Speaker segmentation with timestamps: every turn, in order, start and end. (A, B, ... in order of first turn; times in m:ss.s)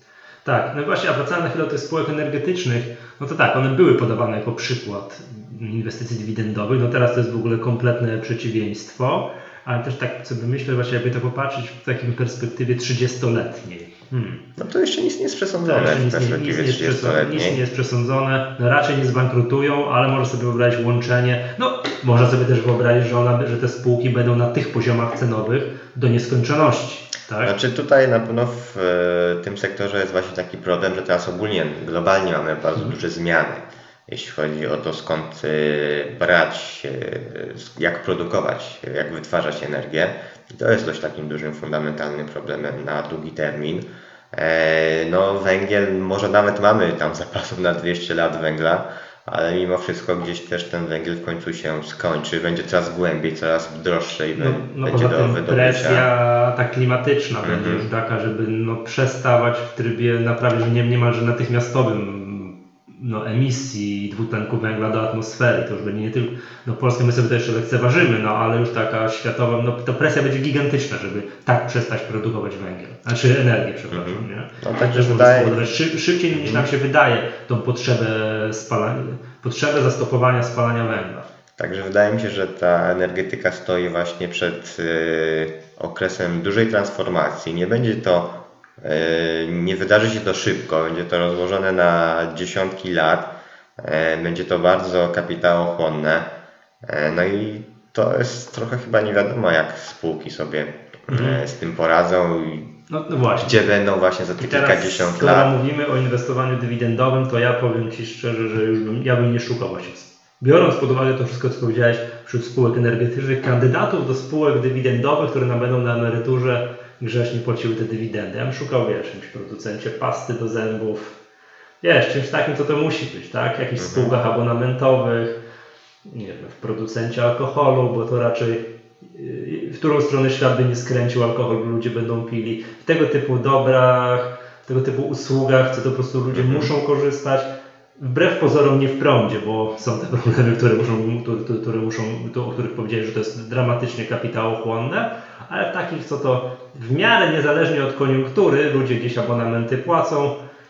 0:00.4-0:14.4 A
0:14.6-0:17.6 B
0:15.6-0:27.5 A
0:27.4-0:56.1 B
0:54.4-1:21.3 A
0:57.4-0:57.9 B
1:13.9-1:15.7 B
1:16.3-1:16.7 B
1:21.6-1:36.3 B
1:36.8-1:42.7 B
1:41.1-1:41.4 A
1:42.9-1:43.6 A
1:43.4-1:45.5 B
1:44.4-2:01.2 A
2:01.8-2:05.4 A
2:03.8-2:04.1 B
2:06.1-2:30.4 A
2:16.3-2:16.7 B